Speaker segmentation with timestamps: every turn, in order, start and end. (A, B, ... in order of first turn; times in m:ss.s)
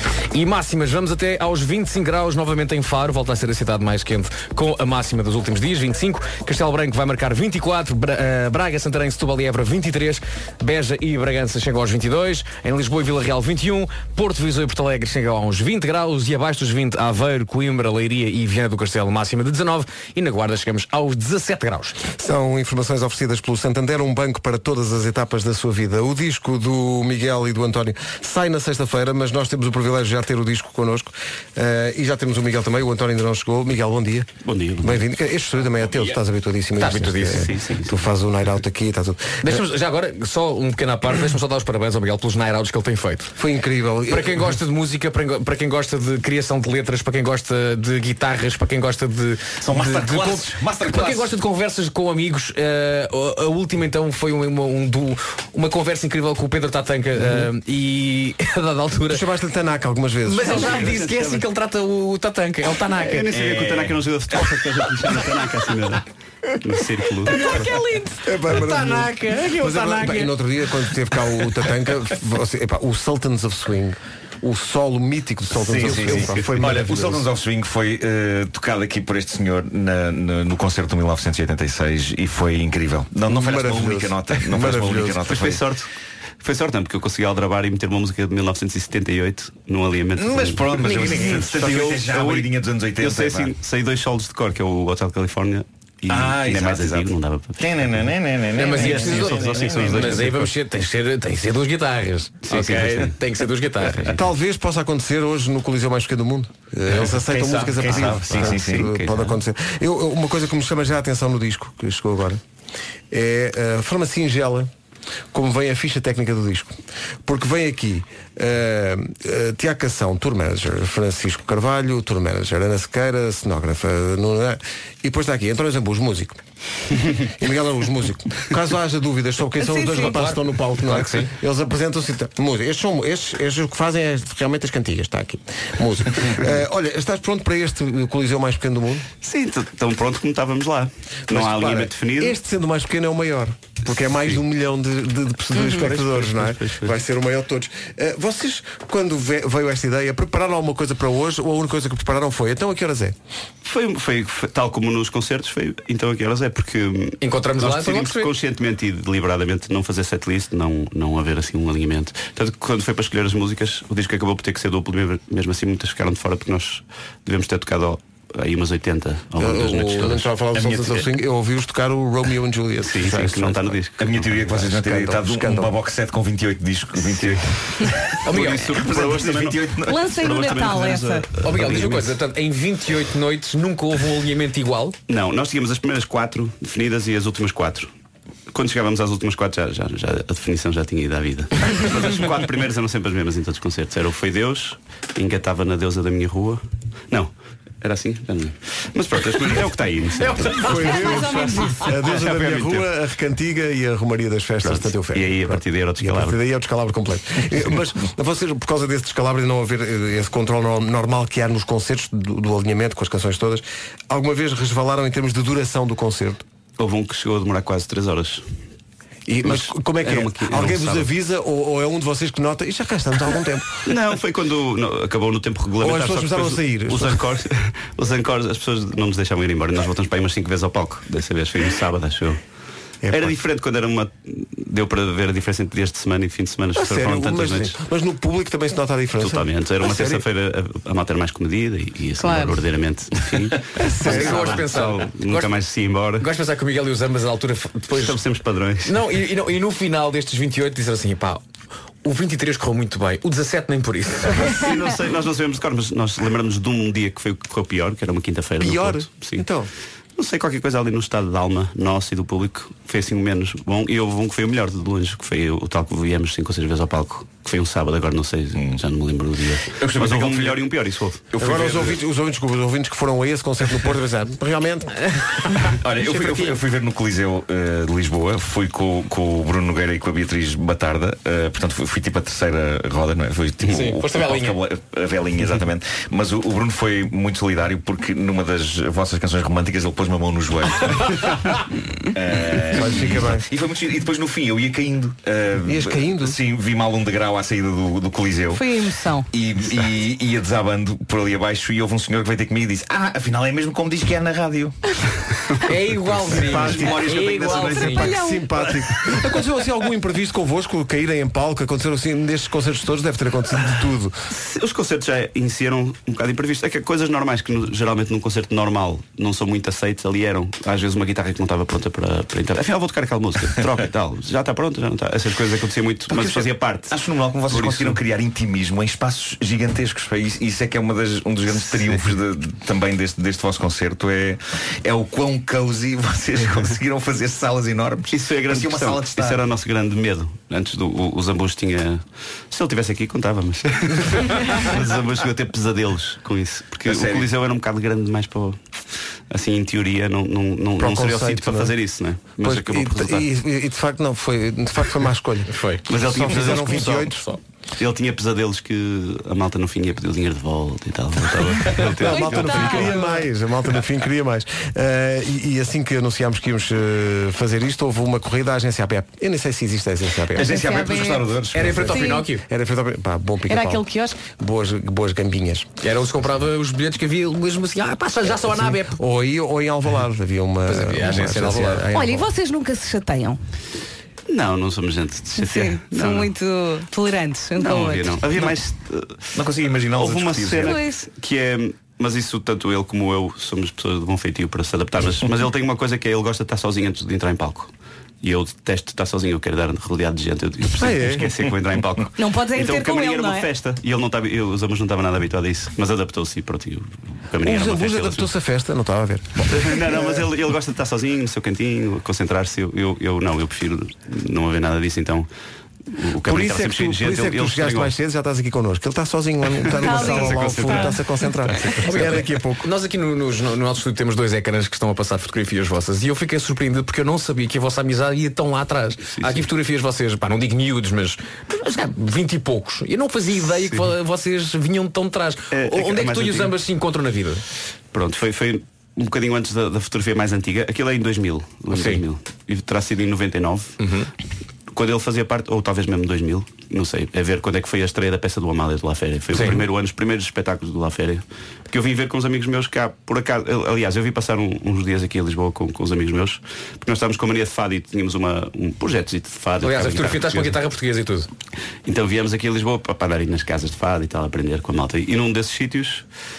0:00.3-0:22.0 A
0:22.2-0:34.3 B
0:34.4-0:35.0 C
0:34.8-0:39.6 B
0:35.8-0:36.1 D
0:36.8-0:37.5 A
0:37.4-0:38.0 C
0:39.4-0:43.3 A
0:43.4-0:44.5 B
0:44.1-0:59.2 A
0:49.6-0:51.3 D
0:57.2-0:57.5 B
0:59.1-1:00.8 B
1:00.2-1:03.5 A
1:00.4-1:01.4 C
1:03.0-1:06.0 C
1:03.4-1:04.0 D
1:06.6-1:07.5 C
1:07.3-1:10.4 A
1:07.4-1:07.6 B
1:08.2-1:17.2 B
1:15.5-1:25.6 D
1:23.3-1:25.5 B
1:25.3-1:25.9 C
1:26.4-1:30.9 C
1:30.2-1:33.5 D
1:30.7-1:32.0 A
1:31.6-1:37.7 C
1:36.1-1:40.4 D
1:38.5-1:44.2 A
1:38.8-1:40.2 C
1:38.8-1:39.2 B
1:42.4-1:43.1 C
1:42.7-1:43.0 D
1:44.1-1:52.4 B
1:47.1-1:48.9 D
1:48.3-1:49.3 C
1:53.1-1:54.7 B
1:55.3-2:06.4 B
2:07.2-2:19.1 B
2:09.6-2:10.1 E
2:10.0-2:11.3 A
2:19.2-2:22.4 C
2:21.3-2:33.2 B
2:25.6-2:25.8 E
2:25.7-2:26.9 C
2:33.6-2:50.3 C
2:37.2-2:38.3 A
2:49.4-2:55.7 B
2:50.6-2:50.9 D
2:52.8-2:54.3 C
2:54.0-3:00.4 D
2:58.2-2:58.9 A
2:58.3-3:02.1 C
2:59.8-3:01.3 E
3:01.4-3:05.0 A
3:05.1-3:07.9 C
3:08.5-3:20.7 C
3:20.2-3:20.9 A
3:20.4-3:36.4 B
3:20.7-3:21.8 E
3:22.0-3:22.9 C
3:24.6-3:26.4 C
3:36.8-3:38.4 C
3:39.3-3:43.9 B
3:39.4-3:41.1 C
3:43.8-3:52.4 C
3:45.8-3:47.3 B
3:53.0-3:53.4 B
3:53.1-3:57.8 C
3:56.8-4:00.2 B
3:59.2-4:06.3 C
4:02.2-4:02.6 E
4:03.8-4:04.7 B
4:04.0-4:05.6 A
4:06.2-4:08.2 A
4:07.9-4:09.1 C
4:08.8-4:11.4 A
4:12.0-4:14.6 A
4:14.3-4:19.4 C
4:18.6-4:19.7 B
4:20.2-4:31.3 C
4:29.8-4:30.7 D
4:31.3-4:32.0 D
4:31.4-4:34.9 B
4:35.7-4:58.6 D
4:36.0-4:36.5 A
4:43.6-4:44.6 A
4:52.7-4:53.5 B
4:55.6-4:56.4 B
4:58.5-4:59.3 E
4:59.3-5:04.8 D
5:05.6-5:08.1 A
5:06.1-5:08.0 D
5:06.3-5:07.1 B
5:07.5-5:08.7 E
5:07.8-5:14.2 B
5:14.3-5:27.0 C
5:26.1-5:39.4 D
5:27.5-5:28.0 C
5:31.6-5:32.1 C
5:38.1-5:48.6 C
5:46.8-5:47.3 D
5:49.3-5:53.3 C
5:50.8-5:51.8 B
5:52.4-5:57.2 B
5:55.5-5:55.8 A
5:55.9-5:57.2 C
5:57.8-6:02.8 C
6:02.0-6:10.5 B
6:02.0-6:03.2 E
6:10.4-6:12.0 D
6:10.4-6:12.3 E
6:11.5-6:12.4 A
6:12.3-6:15.7 B
6:13.5-6:14.2 E
6:15.8-6:19.0 A
6:18.7-6:22.3 B
6:20.7-6:21.8 A
6:21.9-6:23.4 E
6:24.3-6:26.3 C
6:25.4-6:28.2 E
6:27.6-6:48.3 C
6:29.3-6:30.8 D
6:30.6-6:31.0 E
6:40.7-6:41.3 B
6:42.2-6:43.5 E
6:47.4-6:50.3 B
6:49.5-6:55.3 C
6:55.9-6:57.9 C
6:56.2-7:02.7 B
6:59.6-7:02.0 C
6:59.8-7:00.9 E
7:01.8-7:17.4 A
7:09.1-7:09.4 C
7:15.5-7:16.5 C
7:17.9-7:23.8 C
7:21.7-7:22.0 A
7:23.8-7:24.1 A
7:24.7-7:40.6 C
7:29.3-7:29.6 A
7:39.6-7:41.3 A
7:41.8-7:46.0 C